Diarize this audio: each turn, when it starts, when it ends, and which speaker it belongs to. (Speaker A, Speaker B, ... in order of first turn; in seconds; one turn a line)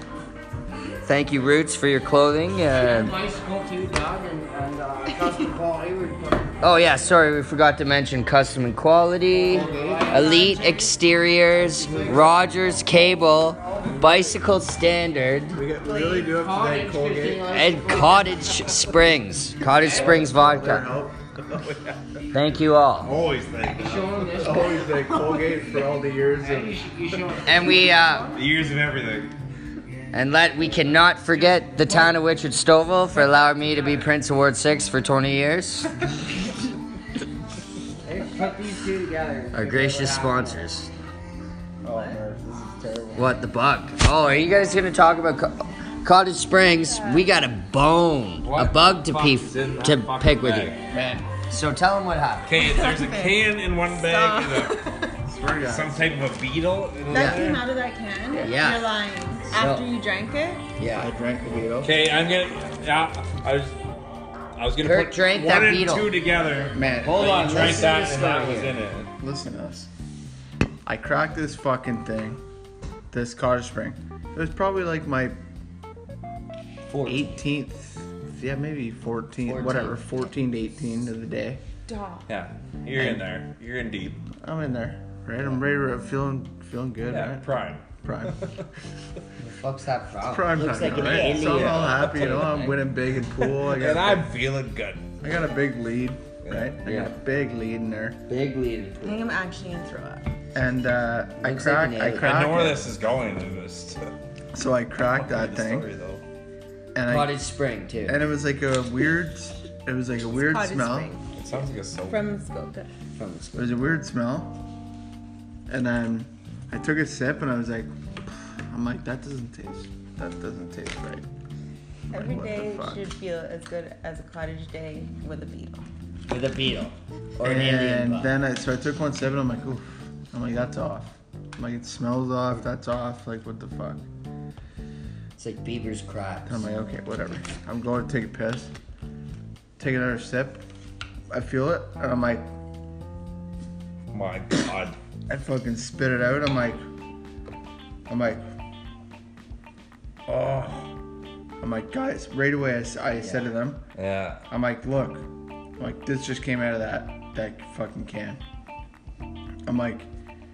Speaker A: 1.0-3.1
Speaker B: 2.6-6.6
Speaker A: 6.6-15.6
Speaker B: 9.3-10.9
Speaker C: 9.5-10.1
Speaker B: 11.5-14.4
Speaker C: 15.5-17.6
Speaker D: 15.9-16.2
Speaker B: 16.1-18.5
Speaker A: 17.5-20.9
Speaker B: 19.7-20.4
Speaker C: 19.8-21.1
Speaker E: 21.5-22.2
Speaker A: 22.3-23.1
Speaker E: 23.0-24.6
Speaker B: 23.6-28.5
Speaker C: 24.4-26.8
Speaker A: 27.4-28.3
Speaker E: 28.3-29.3
Speaker A: 30.1-35.9
Speaker B: 31.8-32.1
Speaker B: 38.0-40.7
Speaker A: 39.5-40.9
Speaker C: 41.8-43.4
Speaker A: 43.1-50.8
Speaker D: 46.8-47.3
Speaker E: 48.4-50.8
Speaker C: 50.9-51.3
Speaker A: 51.5-52.6
Speaker E: 52.5-54.8
Speaker D: 52.5-55.1
Speaker C: 55.2-56.3
Speaker E: 55.5-57.6
Speaker D: 57.1-60.6
Speaker A: 58.3-58.9
Speaker A: 59.5-59.9
Speaker A: 60.8-61.1
Speaker C: 60.9-61.9
Speaker E: 61.8-63.8
Speaker E: 64.5-69.1
Speaker A: 64.8-66.1
Speaker C: 66.7-68.0
Speaker A: 67.0-68.8
Speaker C: 69.2-69.9
Speaker C: 70.8-72.4
Speaker C: 73.1-75.4
Speaker A: 76.9-77.3
Speaker C: 77.0-81.6
Speaker A: 79.4-80.0
Speaker D: 81.9-82.2
Speaker E: 82.3-84.2
Speaker C: 82.9-83.3
Speaker C: 84.4-87.5
Speaker E: 87.0-88.6
Speaker C: 88.0-88.4
Speaker A: 89.4-92.7
Speaker C: 90.2-94.3
Speaker E: 90.9-92.8
Speaker E: 93.3-95.1
Speaker C: 95.2-98.2
Speaker E: 96.4-96.8
Speaker A: 96.8-97.1
Speaker A: 98.3-99.4
Speaker D: 99.0-100.3
Speaker C: 100.5-102.9
Speaker A: 101.4-102.4
Speaker E: 102.2-104.1
Speaker C: 104.5-105.9
Speaker E: 105.0-106.2
Speaker C: 106.9-107.4
Speaker A: 107.1-108.2
Speaker C: 108.0-111.1
Speaker D: 110.3-111.2
Speaker E: 111.3-112.3
Speaker D: 112.1-112.9
Speaker A: 113.2-113.7
Speaker C: 113.5-114.5
Speaker C: 115.7-121.2
Speaker C: 122.1-123.1
Speaker D: 122.1-125.8
Speaker A: 126.3-128.3
Speaker C: 127.4-134.0
Speaker A: 135.4-136.6
Speaker C: 136.4-138.7
Speaker C: 139.8-140.6
Speaker C: 141.3-142.4
Speaker E: 144.1-144.9
Speaker C: 145.3-146.8
Speaker C: 148.1-148.4
Speaker C: 150.3-150.9
Speaker C: 151.6-153.8
Speaker A: 153.2-153.4
Speaker E: 153.9-154.4
Speaker C: 154.5-155.2
Speaker C: 155.8-158.4
Speaker C: 159.7-160.1